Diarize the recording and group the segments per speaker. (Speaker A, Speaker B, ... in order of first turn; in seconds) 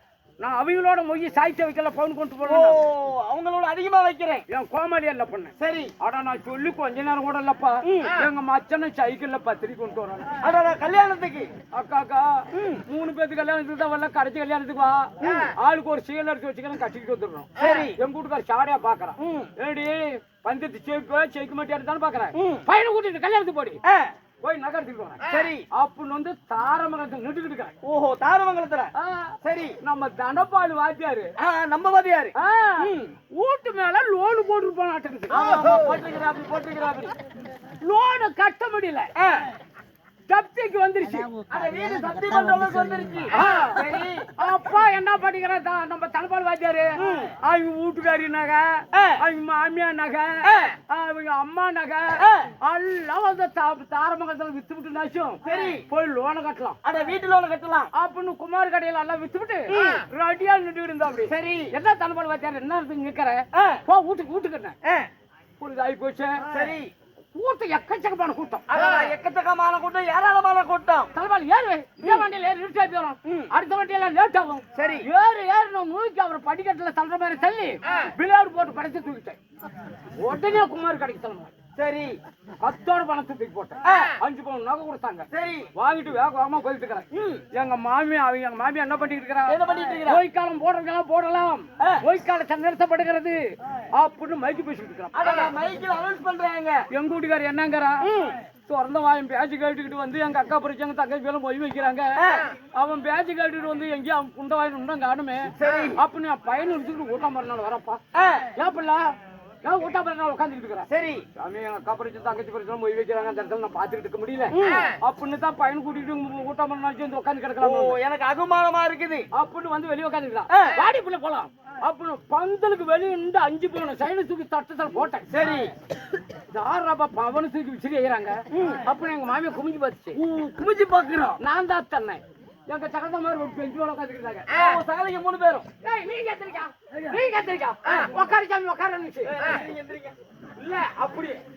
Speaker A: 0.4-2.8, 4.5-10.3, 11.7-23.8, 24.4-25.2, 25.7-27.7, 29.0-31.3, 32.4-35.8, 37.8-39.1, 40.3-41.3, 43.3-43.9, 44.4-46.9, 47.4-56.8, 57.9-64.7, 65.6-66.4, 67.3-68.7, 71.1-79.4, 80.2-81.5, 82.6-95.5, 96.9-98.1, 98.7-102.2, 102.7-108.0, 108.6-109.1, 109.6-118.0, 119.3-125.3, 126.5-130.2, 131.4-134.5, 135.8-139.3, 140.6-141.4
Speaker B: 2.5-4.4, 5.6-5.9, 7.8-8.3, 10.4-11.5, 12.5-12.8, 15.2-15.5, 17.6-18.0, 19.2-19.5, 22.4-22.6, 23.9-24.1, 25.3-25.6, 27.8-28.9, 29.4-29.8, 31.4-33.1, 35.3-37.1, 39.2-39.5, 41.5-44.3, 47.0-47.3, 48.9-49.2, 50.4-50.7, 52.2-52.5, 55.4-55.8, 56.8-57.9, 59.7-60.0, 61.3-61.7, 63.5-63.8, 66.5-66.9, 68.7-71.1, 74.7-75.1, 81.8-82.2, 83.8-84.1, 85.3-85.7, 87.1-87.4, 89.5-90.2, 95.1-96.8, 98.0-98.4, 102.2-102.5, 105.6-106.0, 108.1-108.5, 110.9-111.2, 114.5-115.0, 117.6-119.2, 120.5-120.8, 125.3-125.7, 128.5-128.8, 130.2-131.4, 134.5-135.7, 137.8-138.1, 139.2-140.1